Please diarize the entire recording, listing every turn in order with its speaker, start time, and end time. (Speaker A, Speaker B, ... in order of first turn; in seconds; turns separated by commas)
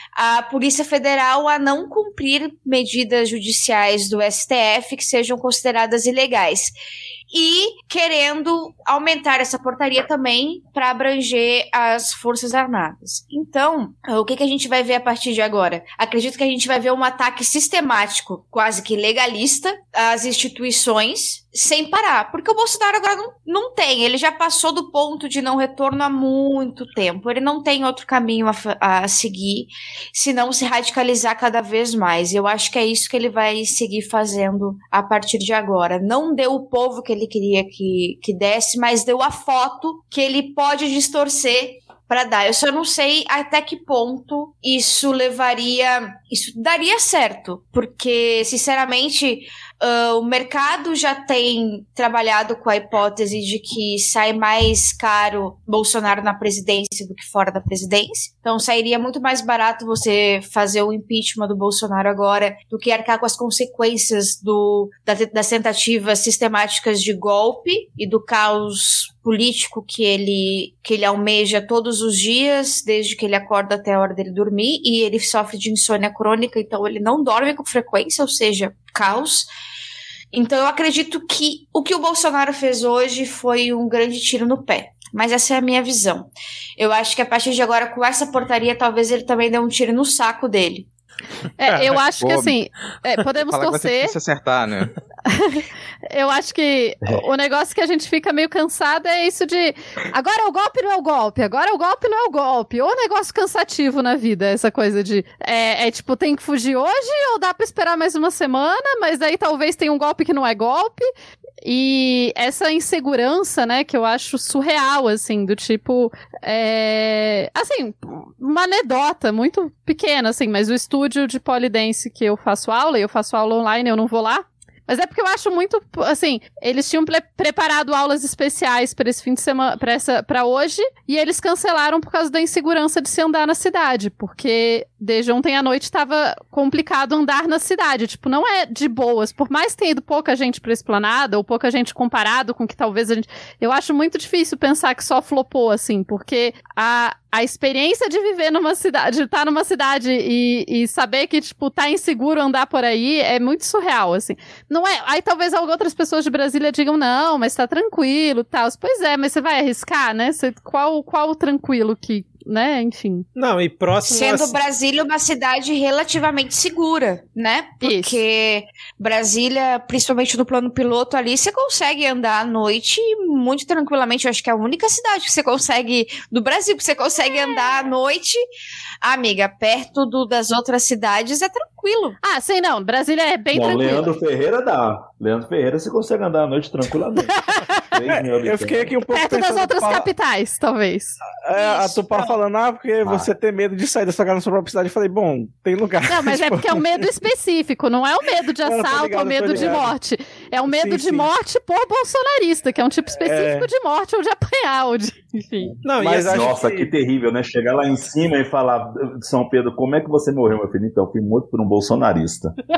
Speaker A: 0.1-6.7, Speaker A: 7.3-79.5, Speaker A: 80.3-90.9, Speaker B: 91.6-94.2, Speaker C: 91.7-92.0, Speaker D: 92.2-92.5, Speaker D: 93.4-95.0, Speaker B: 95.2-111.1, Speaker B: 111.6-163.2, Speaker C: 163.3-164.6, Speaker A: 164.1-178.4, Speaker B: 167.8-168.2, Speaker A: 179.0-182.2, Speaker B: 182.2-184.1, Speaker E: 183.5-188.9, Speaker F: 188.1-190.1, Speaker B: 189.1-191.2, Speaker F: 191.4-197.0, Speaker A: 191.5-192.4, Speaker E: 193.0-193.3, Speaker B: 196.0-205.7, Speaker F: 198.6-199.9, Speaker E: 199.5-199.8, Speaker F: 200.7-201.3, Speaker F: 203.2-203.7, Speaker C: 205.8-206.5, Speaker F: 206.0-206.9, Speaker E: 206.3-212.5